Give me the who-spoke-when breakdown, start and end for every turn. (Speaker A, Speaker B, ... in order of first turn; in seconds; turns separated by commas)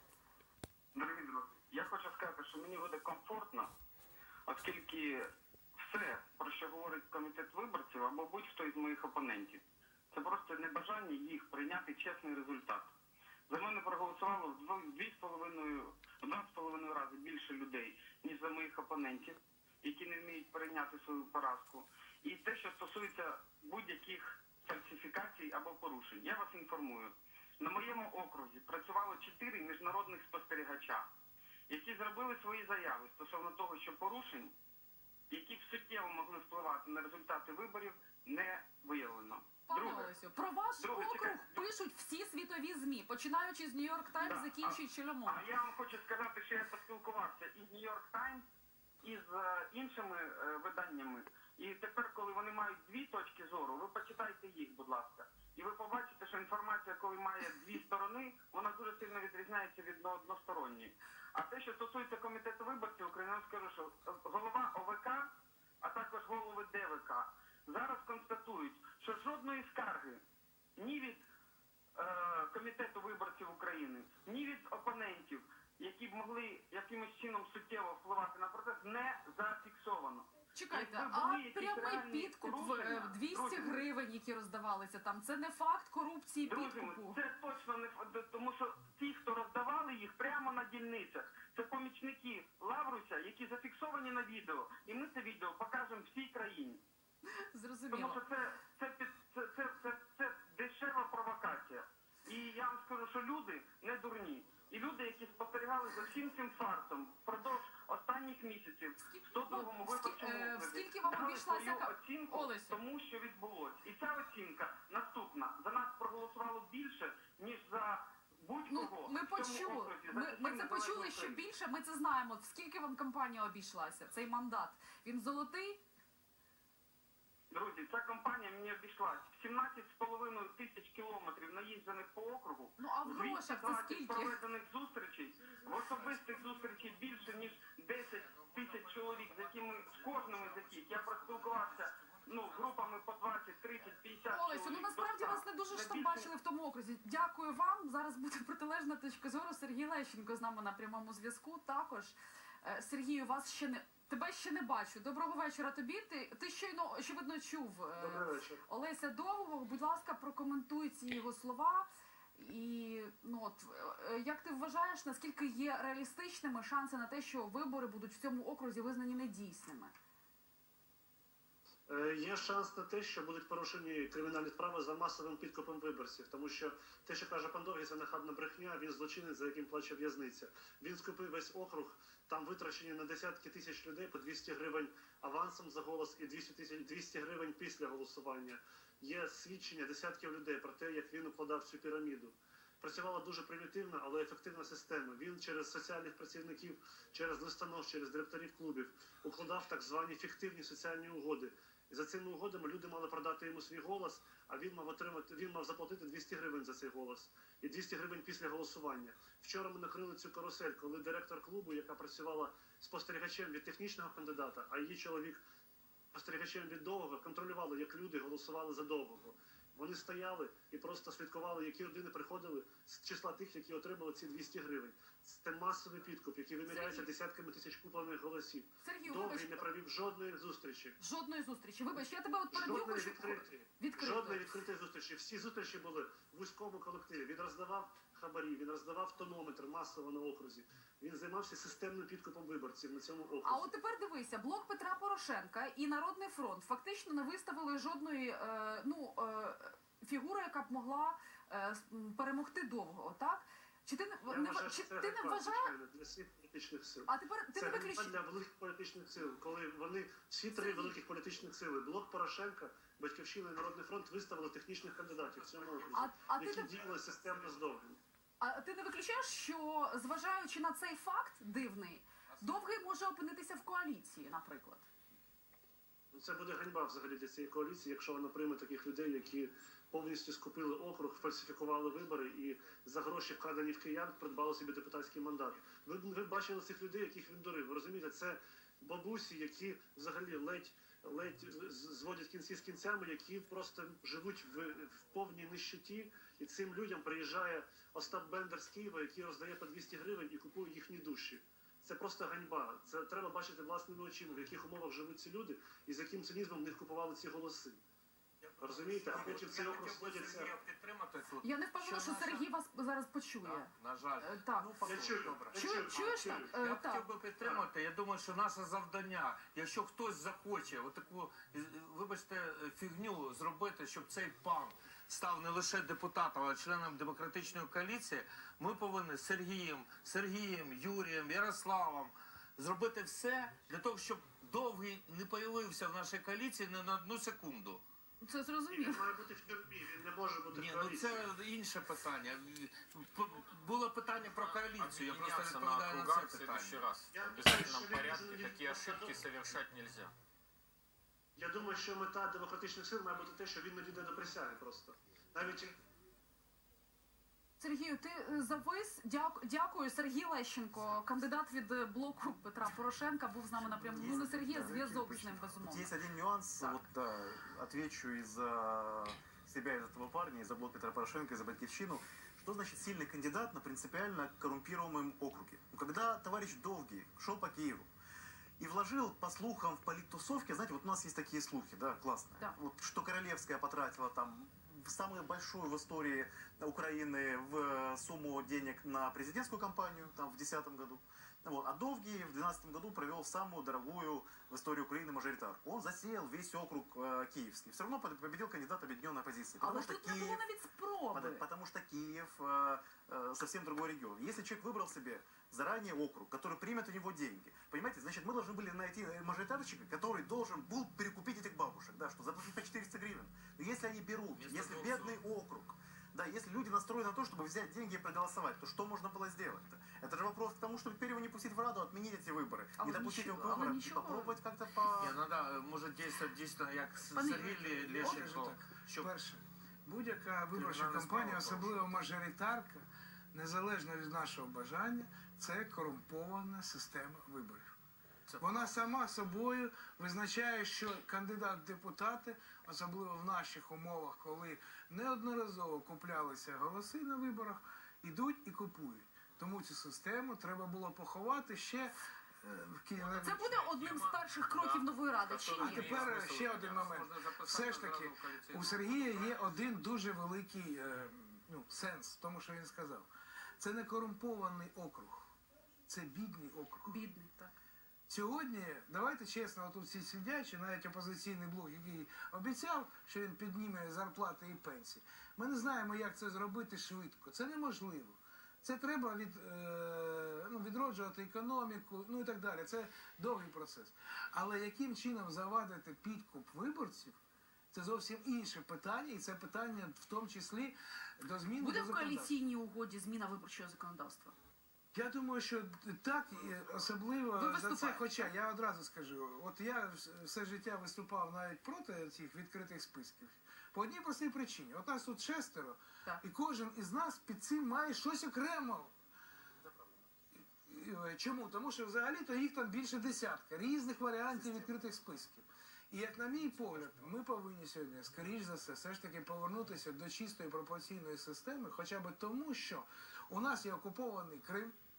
Speaker A: 0.9-3.7, Speaker A: 4.5-5.2, Speaker A: 5.8-12.9, Speaker A: 13.5-31.0, Speaker A: 31.7-34.5, Speaker A: 35.3-40.1, Speaker B: 39.7-45.4, Speaker A: 40.8-41.6, Speaker A: 44.2-44.7, Speaker A: 45.2-48.4, Speaker A: 49.0-65.2, Speaker A: 65.8-70.2, Speaker A: 70.8-71.2, Speaker A: 72.0-83.8, Speaker B: 80.5-87.2, Speaker A: 86.4-96.8, Speaker B: 97.4-98.2, Speaker A: 97.9-121.4, Speaker B: 109.1-112.8, Speaker B: 118.7-125.8, Speaker A: 127.5-146.3, Speaker B: 132.8-134.4, Speaker C: 140.3-140.8, Speaker B: 144.3-169.9, Speaker D: 157.9-158.6, Speaker D: 171.9-215.4, Speaker D: 216.1-230.9, Speaker B: 226.7-227.1, Speaker B: 228.8-229.7, Speaker B: 231.0-234.6, Speaker D: 232.5-243.7, Speaker B: 243.4-255.7, Speaker D: 254.3-268.0, Speaker B: 257.1-258.2, Speaker B: 260.5-260.9, Speaker C: 265.2-266.0, Speaker B: 265.9-266.8, Speaker C: 267.0-267.5, Speaker B: 268.4-274.9, Speaker D: 276.1-307.8, Speaker C: 308.4-312.5, Speaker D: 308.6-310.5, Speaker B: 311.4-314.7, Speaker C: 313.4-337.8, Speaker D: 314.8-316.5, Speaker B: 315.5-317.1, Speaker D: 317.4-317.7, Speaker B: 338.2-339.1, Speaker D: 338.7-341.2, Speaker C: 340.5-346.9, Speaker E: 344.7-350.1, Speaker D: 347.1-349.3, Speaker D: 351.4-355.7, Speaker B: 357.6-365.9, Speaker F: 363.9-377.9, Speaker F: 378.6-400.4, Speaker B: 399.6-401.4, Speaker F: 401.1-425.2, Speaker C: 414.3-415.2, Speaker B: 422.8-424.4, Speaker C: 424.8-429.1, Speaker B: 427.1-428.2, Speaker G: 428.0-437.7, Speaker C: 430.5-432.1, Speaker C: 438.3-438.7, Speaker G: 438.4-453.5, Speaker C: 453.0-454.8, Speaker B: 453.2-456.1, Speaker E: 455.2-455.6, Speaker C: 455.4-459.4, Speaker G: 455.6-463.1, Speaker G: 463.6-465.3, Speaker G: 465.9-467.0, Speaker B: 466.9-467.5, Speaker G: 468.1-487.2, Speaker G: 487.7-492.3, Speaker B: 491.6-494.3, Speaker G: 494.9-508.9, Speaker B: 497.4-498.3, Speaker F: 509.6-510.1, Speaker G: 510.6-524.7, Speaker F: 514.3-514.8